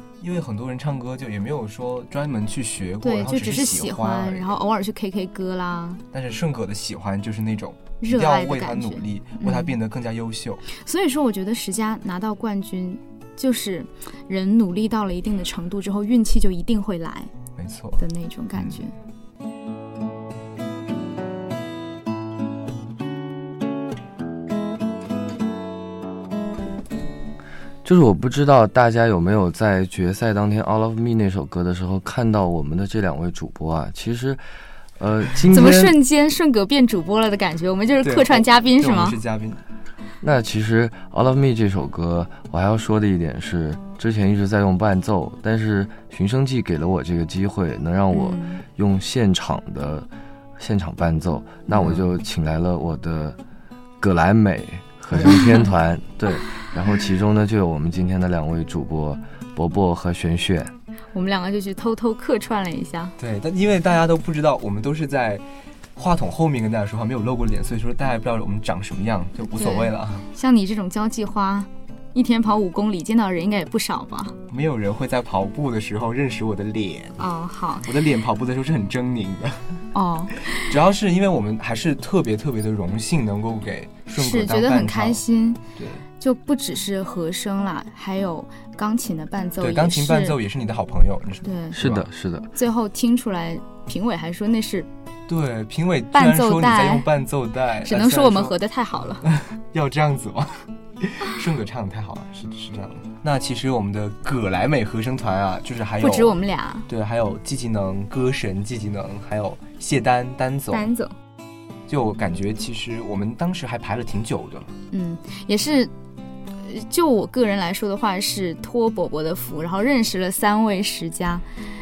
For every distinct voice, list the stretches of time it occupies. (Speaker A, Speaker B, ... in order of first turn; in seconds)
Speaker A: 0.2-4.6, 6.1-10.7, 17.6-18.0, 38.0-39.6, 51.7-52.0, 63.2-65.4, 66.0-70.3, 74.5-77.2, 77.8-79.8, 80.5-85.2, 85.8-86.0, 89.6-92.1, 95.3-98.6, 99.2-110.9, 111.9-114.7
Speaker B: 3.0-6.0, 8.0-9.8, 10.7-17.3, 18.0-18.9, 35.5-39.2, 48.1-48.6, 61.1-63.1, 69.6-74.4, 77.2-78.0, 79.9-80.8, 84.1-85.6, 86.2-90.4, 91.4-91.8, 92.5-94.9, 96.1-97.1, 97.8-99.3, 106.0-106.9, 110.7-111.1, 114.9-115.9, 116.6-121.5
Speaker C: 27.8-36.0, 40.2-53.4, 54.0-60.7, 91.7-92.5